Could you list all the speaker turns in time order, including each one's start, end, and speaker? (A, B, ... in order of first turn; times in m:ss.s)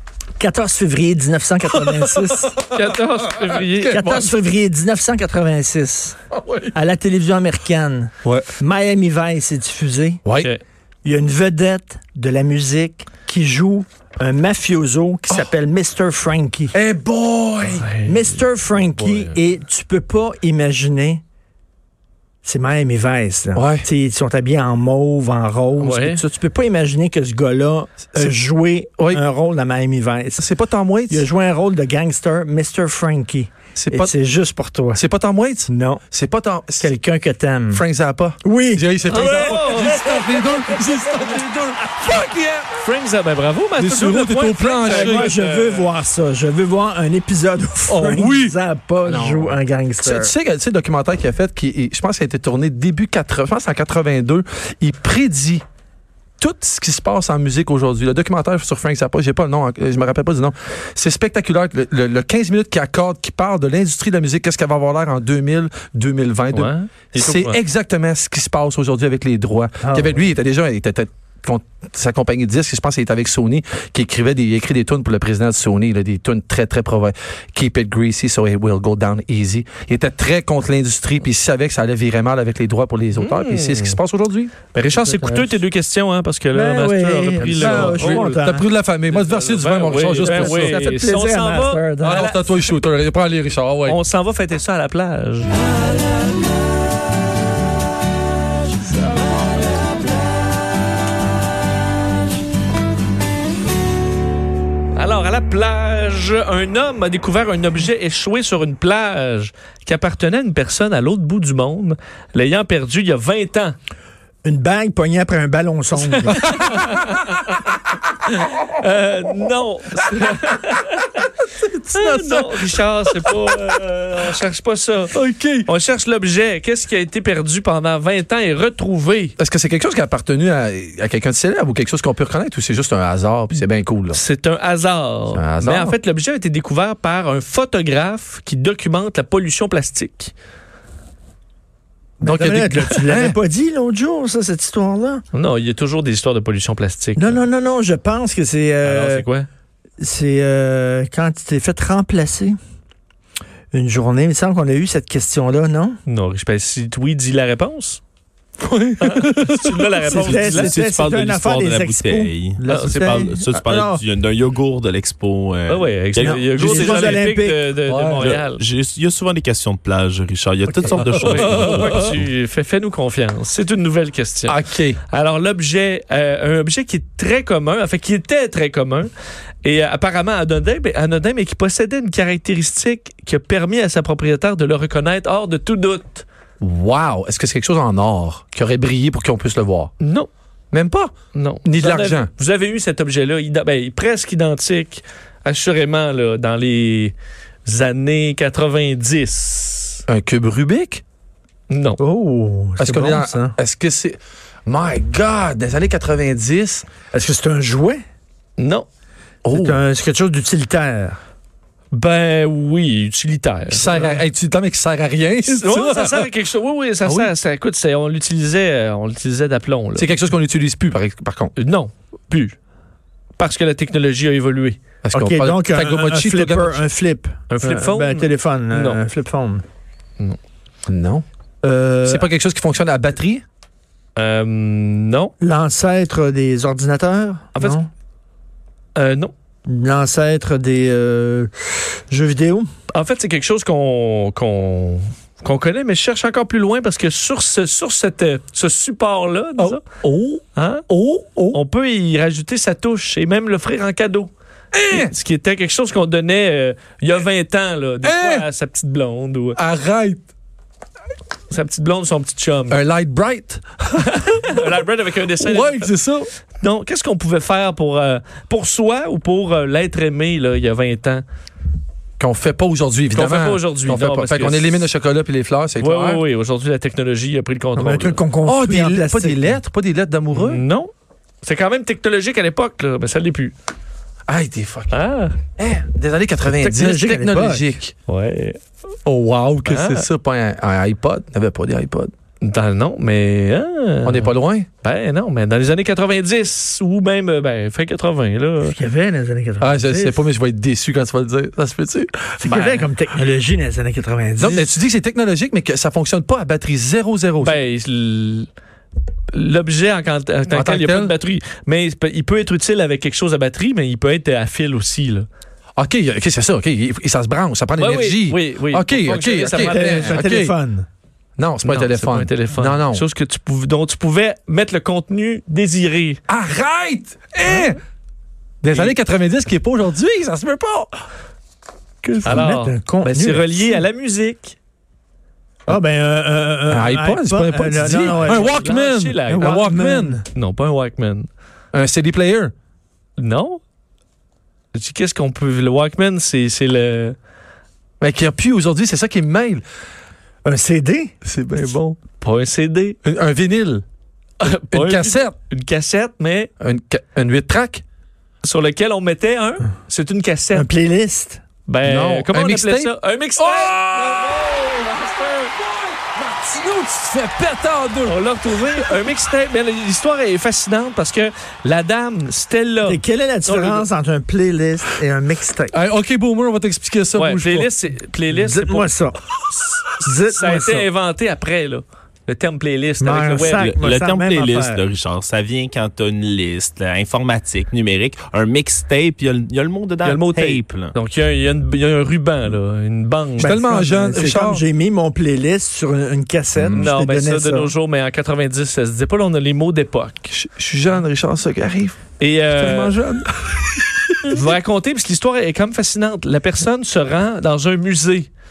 0:00.4-0:02.6 A
0:01.7-0:04.0 B
0:02.7-0:04.3 C
0:03.8-0:06.2 A
0:06.3-0:06.8 B
0:06.7-0:10.2 A
0:10.2-0:10.5 B
0:10.4-0:10.6 C
0:11.0-0:16.8 A
0:16.7-0:17.9 B
0:17.7-0:18.2 C
0:18.0-0:21.2 A
0:22.4-0:30.5 A
0:23.5-0:23.9 B
0:25.8-0:26.2 C
0:29.0-0:29.2 B
0:30.4-0:31.3 B
0:31.1-0:35.0 A
0:33.7-0:34.1 B
0:34.9-0:36.9 B
0:35.7-0:36.0 A
0:36.8-0:37.8 A
0:37.7-0:42.7 B
0:38.4-0:41.5 A
0:39.0-0:40.1 C
0:42.7-0:45.9 C
0:43.8-0:45.3 B
0:44.8-0:50.3 A
0:47.9-0:55.6 B
0:56.4-1:24.5 B
1:06.5-1:07.6 C
1:09.8-1:10.2 A
1:23.1-1:24.0 C
1:24.7-1:28.4 C
1:24.9-1:25.5 A
1:26.5-1:28.7 A
1:27.4-1:31.0 B
1:29.1-1:32.7 C
1:30.2-1:32.3 A
1:32.0-1:34.0 B
1:33.8-1:35.5 C
1:44.9-1:53.8 C
1:54.4-1:56.4 A
1:56.3-1:57.4 B
1:56.3-1:57.7 C
1:58.2-2:01.3 C
2:01.5-2:03.6 B
2:01.9-2:09.4 C
2:05.1-2:05.7 B
2:09.4-2:14.2 B
2:14.1-2:20.3 C
2:15.3-2:16.0 B
2:22.2-2:25.2 A
2:22.2-2:23.4 B
2:25.3-2:27.4 C
2:27.2-2:29.3 A
2:28.8-2:29.5 C
2:30.0-2:32.6 A
2:33.7-2:36.0 A
2:36.0-2:38.0 C
2:38.6-2:40.1 B
2:39.0-2:40.8 C
2:40.0-2:44.0 A
2:40.1-2:47.3 D
2:42.7-2:43.2 C
2:45.6-2:48.6 C
2:46.2-2:47.7 A
2:47.9-2:48.3 B
2:48.2-2:52.2 D
2:50.7-2:51.1 A
2:51.2-2:59.1 C
2:54.5-2:55.0 B
2:59.6-3:06.2 C
3:06.6-3:09.9 B
3:10.0-3:10.3 C
3:10.7-3:11.1 B
3:11.3-3:20.0 C
3:11.6-3:12.3 B
3:20.1-3:21.0 B
3:21.7-3:22.0 C
3:22.0-3:23.5 A
3:22.8-3:26.9 B
3:27.1-3:28.0 A
3:28.6-3:28.8 C
3:29.4-3:29.8 B
3:29.5-3:31.2 A
3:31.9-3:34.2 C
3:33.7-3:36.3 B
3:35.4-3:40.1 C
3:37.0-3:37.3 B
3:39.9-3:41.5 B
3:41.6-3:42.6 C
3:43.4-3:44.8 C
3:45.0-3:46.8 B
3:45.1-3:49.6 A
3:47.5-3:49.0 C
3:50.9-3:51.2 B
3:51.6-3:52.3 A
3:52.0-3:53.4 B
3:54.2-3:55.3 C
3:55.4-3:57.9 A
3:58.9-3:59.3 C
3:59.7-4:02.7 A
4:02.9-4:09.8 C
4:09.6-4:11.6 B
4:10.5-4:10.8 C
4:11.5-4:14.3 C
4:14.7-4:15.1 B
4:14.9-4:19.6 C
4:18.0-4:18.5 B
4:19.5-4:20.2 B
4:21.5-4:22.8 C
4:22.7-4:24.8 B
4:24.0-4:25.9 C
4:25.4-4:26.3 B
4:26.6-4:31.2 C
4:32.2-4:36.2 B
4:33.1-4:34.9 C
4:35.8-4:38.2 C
4:37.8-4:39.6 A
4:38.4-4:40.6 B
4:40.3-4:40.9 C
4:41.4-4:43.5 C
4:44.3-4:45.0 B
4:44.9-4:45.4 C
4:45.6-4:47.9 B
4:46.4-4:47.8 A
4:48.1-4:48.6 C
4:49.0-4:52.1 B
4:49.6-4:50.0 C
4:52.4-4:58.8 C
4:54.0-4:54.7 B
4:58.6-5:00.2 A
4:59.6-5:02.8 B
5:02.4-5:04.7 A
5:02.5-5:02.8 C
5:04.4-5:07.6 B
5:07.4-5:08.5 C
5:09.3-5:15.3 C
5:10.5-5:11.1 B
5:15.8-5:20.5 B
5:17.8-5:20.2 C
5:19.7-5:20.8 A
5:21.4-5:23.0 B
5:21.6-5:26.2 C
5:26.3-5:27.8 B
5:28.6-5:30.9 B
5:32.1-5:33.8 A
5:32.2-5:34.6 C
5:35.7-5:38.7 A
5:36.7-5:40.2 B
5:38.2-5:39.7 C
5:39.3-5:40.2 A
5:40.3-5:41.3 C
5:41.7-5:42.5 B
5:43.2-5:43.6 C
5:44.7-5:47.2 C
5:48.0-5:49.6 B
5:50.4-5:51.1 A
5:51.2-5:52.0 B
5:52.2-5:53.0 C
5:53.0-5:53.8 B
5:54.4-5:56.5 C
5:54.7-5:55.3 B
5:56.6-5:57.8 B
5:58.4-6:00.7 C
6:00.5-6:01.4 A
6:01.6-6:05.5 C
6:01.8-6:08.9 B
6:08.0-6:13.8 C
6:12.8-6:15.7 A
6:15.7-6:17.7 B
6:17.2-6:18.9 C
6:18.3-6:19.2 A
6:20.0-6:20.9 A
6:20.1-6:23.8 C
6:23.0-6:24.8 A
6:23.4-6:30.9 D
6:30.0-6:33.6 C
6:33.4-6:34.6 B
6:33.5-6:37.7 A
6:36.6-6:36.9 B
6:36.7-6:40.3 C
6:40.3-6:44.4 B
6:42.2-6:43.0 C
6:44.3-6:48.3 C